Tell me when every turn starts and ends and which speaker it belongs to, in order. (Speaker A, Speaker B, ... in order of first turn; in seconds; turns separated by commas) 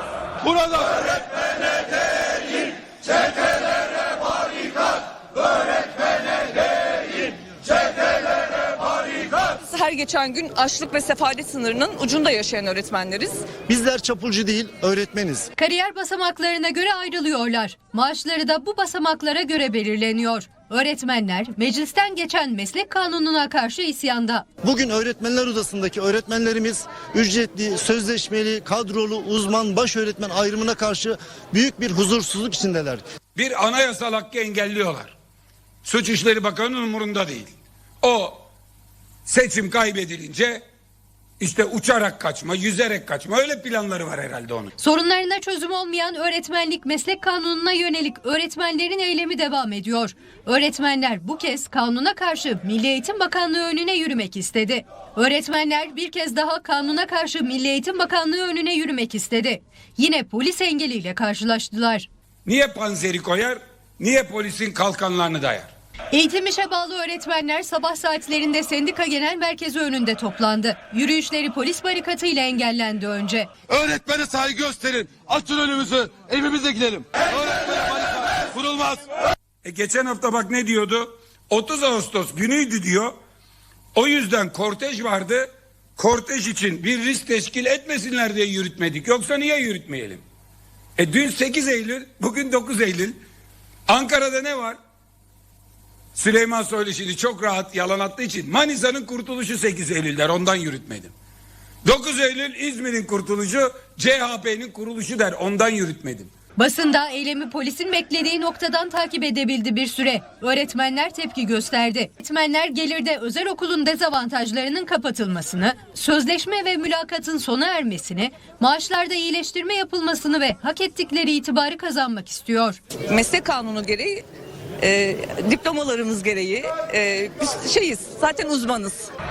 Speaker A: 9.6-13.4, Speaker B: 13.7-15.5, Speaker C: 15.6-24.4, Speaker B: 24.6-33.0, Speaker D: 33.3-35.1, Speaker D: 35.8-38.4, Speaker D: 39.2-40.6, Speaker D: 41.4-44.7, Speaker C: 44.8-62.1, Speaker D: 62.4-65.7, Speaker C: 66.1-73.5, Speaker E: 73.7-79.0, Speaker D: 79.6-83.1, Speaker D: 83.9-90.2, Speaker D: 91.0-93.2, Speaker D: 93.9-94.8, Speaker D: 96.1-101.1, Speaker D: 101.8-106.3, Speaker C: 106.6-122.8, Speaker A: 123.1-124.2, Speaker A: 124.8-129.1